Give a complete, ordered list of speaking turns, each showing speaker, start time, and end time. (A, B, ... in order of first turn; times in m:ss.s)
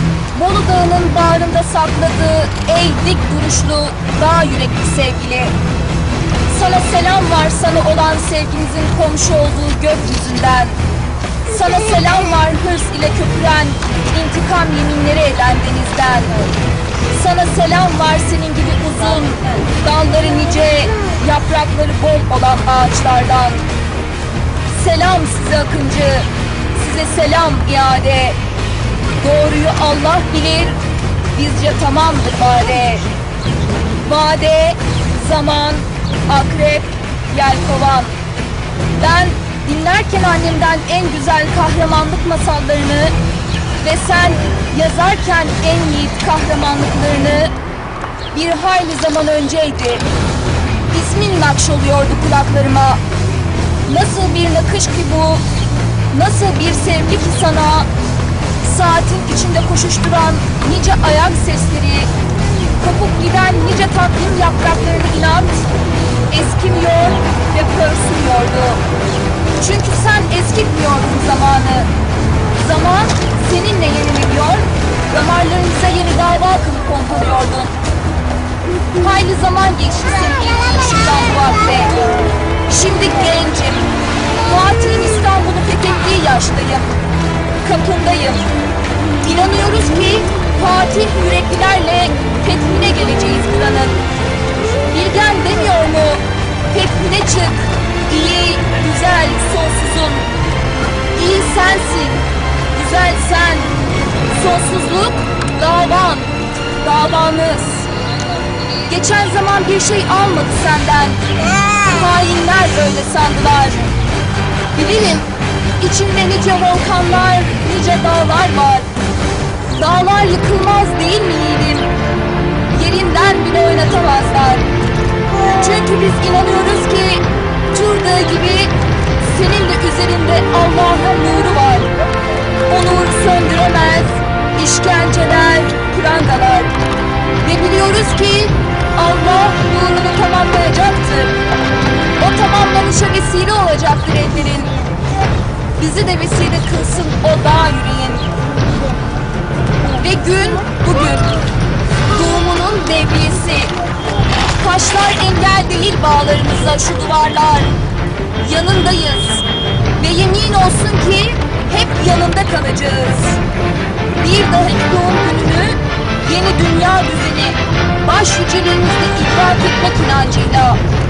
0:00.3-0:05.6 A
0:06.5-0:10.8 A
0:11.4-0:16.5 A
0:17.1-0:23.6 A
0:24.7-0:28.4 A
0:29.2-0:30.8 A
0:31.3-0:33.1 A
0:34.0-0:38.2 A
0:38.9-0:43.2 A
0:43.8-0:47.5 A
0:48.3-0:50.1 A
0:50.9-0:53.0 A
0:53.9-0:55.4 A
0:56.1-0:57.9 A
0:58.6-1:02.1 A
1:02.8-1:05.7 A
1:06.3-1:08.8 A
1:09.6-1:11.9 A
1:12.6-1:17.8 A
1:19.0-1:22.0 A
1:22.7-1:26.9 A
1:27.6-1:28.5 A
1:29.2-1:34.0 A
1:34.9-1:40.3 A
1:41.2-1:43.8 A
1:44.3-1:47.9 A
1:48.9-1:51.2 A
1:51.8-1:53.9 A
1:54.7-1:58.9 A
1:59.7-2:01.9 A
2:02.7-2:04.7 A
2:05.4-2:11.9 A
2:12.7-2:16.7 A
2:17.4-2:21.4 A
2:22.2-2:24.8 A
2:25.8-2:28.3 A
2:29.8-2:31.3 A
2:32.1-2:33.7 A
2:34.6-2:37.7 A
2:38.4-2:39.4 A
2:40.0-2:43.4 A
2:44.2-2:50.8 A